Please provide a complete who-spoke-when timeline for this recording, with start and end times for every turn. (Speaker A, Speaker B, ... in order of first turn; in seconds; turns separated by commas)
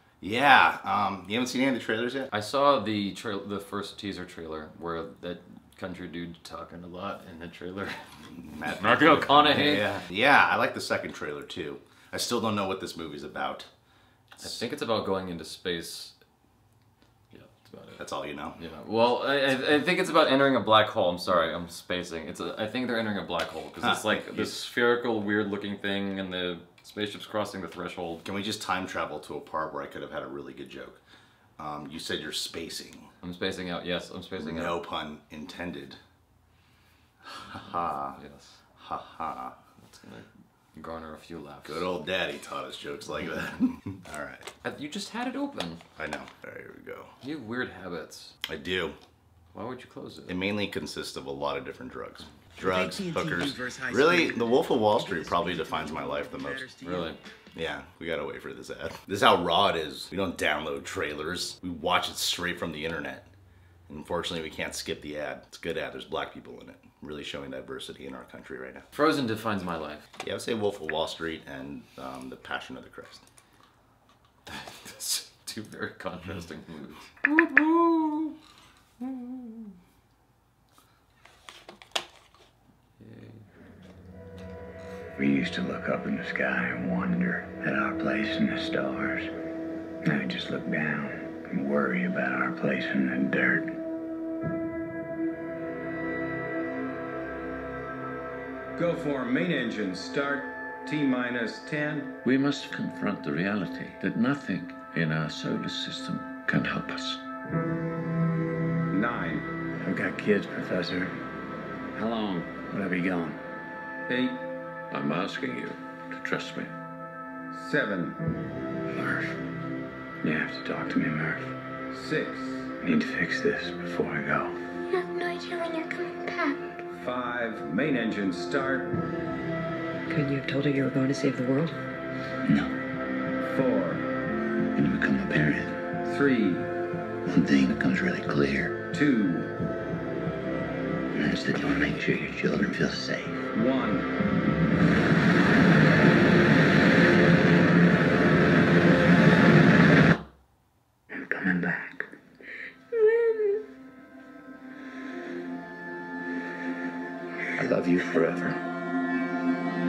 Speaker A: 0.2-2.3, Speaker B: 2.3-8.1, Speaker A: 8.3-13.7, Speaker B: 8.8-9.9, Speaker B: 14.4-16.1, Speaker B: 17.3-18.0, Speaker A: 18.0-18.6, Speaker B: 18.6-28.2, Speaker A: 23.8-24.6, Speaker A: 28.2-31.0, Speaker A: 31.6-33.1, Speaker B: 33.2-34.8, Speaker A: 34.4-36.0, Speaker A: 37.3-38.2, Speaker B: 37.5-38.6, Speaker A: 38.8-39.5, Speaker B: 39.8-41.9, Speaker A: 41.6-44.5, Speaker B: 44.6-45.8, Speaker A: 46.0-47.1, Speaker B: 47.2-48.3, Speaker A: 48.5-49.0, Speaker B: 49.5-50.4, Speaker A: 50.3-56.9, Speaker C: 52.7-53.4, Speaker B: 56.8-57.2, Speaker A: 57.5-63.3, Speaker A: 63.9-68.8, Speaker B: 68.9-70.0, Speaker A: 70.2-73.2, Speaker B: 74.5-78.3, Speaker B: 79.0-79.7, Speaker B: 83.0-83.4, Speaker D: 85.2-89.3, Speaker D: 90.0-93.8, Speaker E: 98.8-102.1, Speaker F: 102.2-107.2, Speaker E: 108.9-109.5, Speaker D: 109.8-111.1, Speaker D: 112.6-113.4, Speaker E: 114.1-114.4, Speaker F: 114.9-116.7, Speaker E: 117.5-118.2, Speaker D: 118.9-119.3, Speaker D: 120.2-121.5, Speaker E: 121.9-122.7, Speaker D: 122.8-124.5, Speaker G: 124.9-126.6, Speaker E: 126.9-128.9, Speaker C: 130.1-131.8, Speaker D: 132.4-132.7, Speaker E: 133.4-134.0, Speaker D: 134.7-135.8, Speaker E: 136.0-136.7, Speaker D: 137.3-138.7, Speaker E: 138.9-139.5, Speaker D: 141.1-143.4, Speaker E: 143.5-144.1, Speaker D: 151.2-152.1, Speaker G: 153.0-153.4, Speaker D: 157.6-158.5